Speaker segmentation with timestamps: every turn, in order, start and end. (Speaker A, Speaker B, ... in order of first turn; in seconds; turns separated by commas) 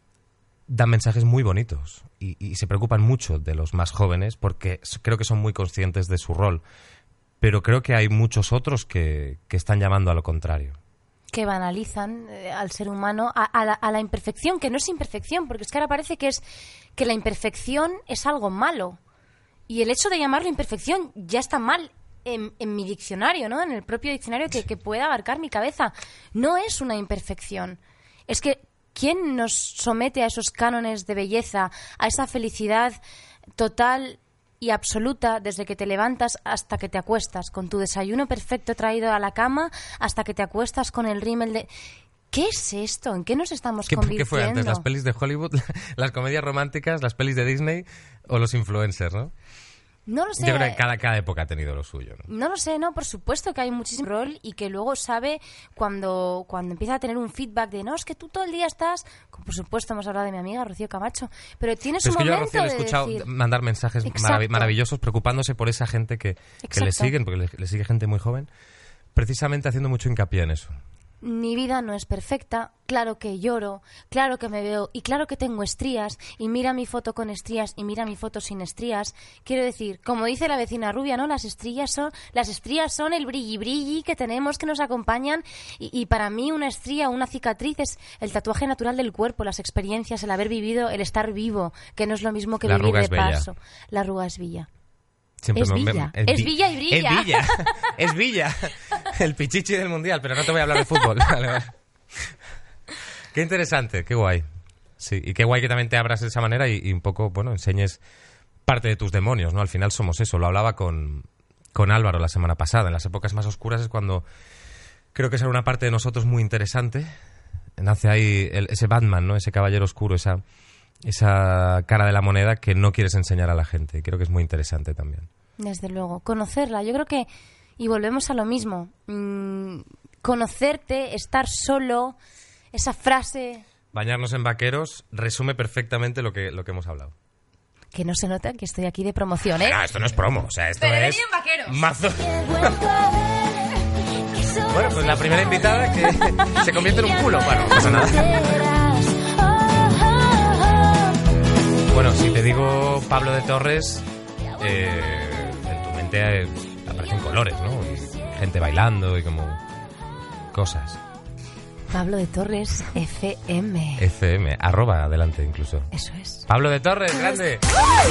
Speaker A: 0.7-6.6, Speaker A: 7.4-10.8, Speaker B: 11.3-16.4, Speaker B: 17.0-19.0, Speaker B: 19.7-33.0, Speaker B: 33.6-41.7, Speaker B: 42.3-44.9, Speaker A: 43.9-49.3, Speaker B: 50.1-50.8, Speaker A: 50.4-52.3, Speaker B: 52.3-63.3, Speaker A: 62.0-68.5, Speaker B: 64.0-64.7, Speaker B: 66.6-67.1, Speaker A: 69.2-70.7, Speaker B: 71.2-94.7, Speaker A: 92.6-93.5, Speaker A: 95.4-102.4, Speaker B: 95.5-97.9, Speaker A: 103.3-104.5, Speaker A: 105.0-108.0, Speaker A: 108.7-114.2, Speaker A: 115.1-117.1, Speaker A: 117.8-120.4, Speaker A: 121.0-125.3, Speaker B: 125.6-132.2, Speaker B: 132.7-133.6, Speaker A: 133.9-137.1, Speaker B: 137.9-139.8, Speaker A: 139.6-142.9, Speaker B: 140.8-141.8, Speaker B: 142.6-143.7, Speaker A: 144.7-148.6, Speaker B: 146.4-146.8, Speaker B: 147.7-150.9, Speaker A: 151.9-154.1, Speaker A: 154.6-159.6, Speaker A: 160.5-161.0, Speaker B: 161.9-164.1, Speaker A: 164.0-165.9, Speaker B: 165.9-166.5, Speaker A: 166.5-167.7